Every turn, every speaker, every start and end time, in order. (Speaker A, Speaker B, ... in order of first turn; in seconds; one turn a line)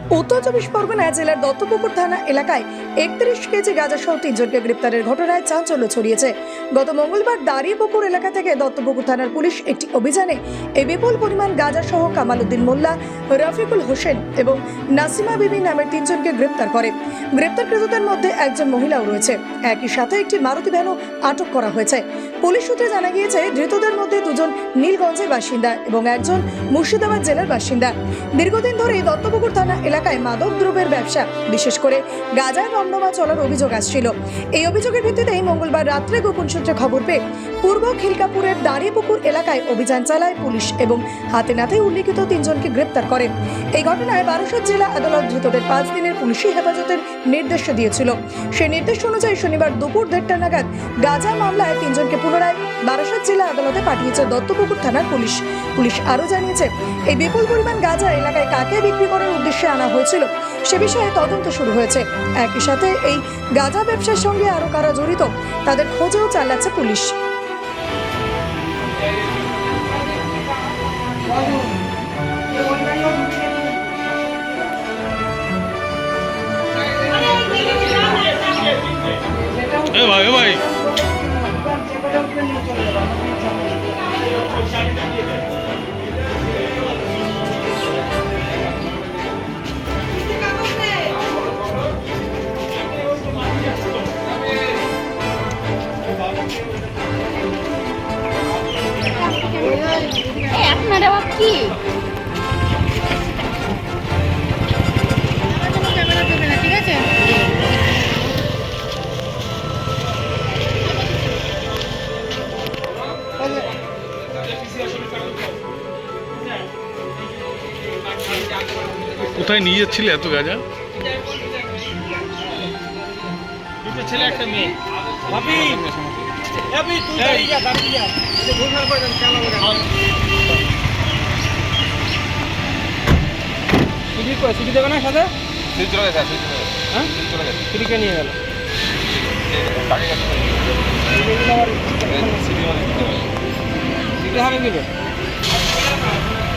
Speaker A: 0.1-67.1
Speaker B: 72.7-73.3
Speaker C: 79.9-80.6
Speaker B: 81.7-83.0
Speaker D: 99.7-101.7
Speaker D: 105.8-107.0
Speaker C: 119.2-120.6
Speaker B: 123.9-124.7
Speaker B: 125.3-125.8
Speaker E: 125.3-126.1
Speaker B: 126.7-129.8
Speaker B: 134.1-135.3
Speaker E: 135.7-137.7
Speaker B: 137.7-138.3
Speaker E: 139.2-140.7
Speaker B: 141.2-142.4
Speaker E: 142.1-143.3
Speaker B: 144.3-144.9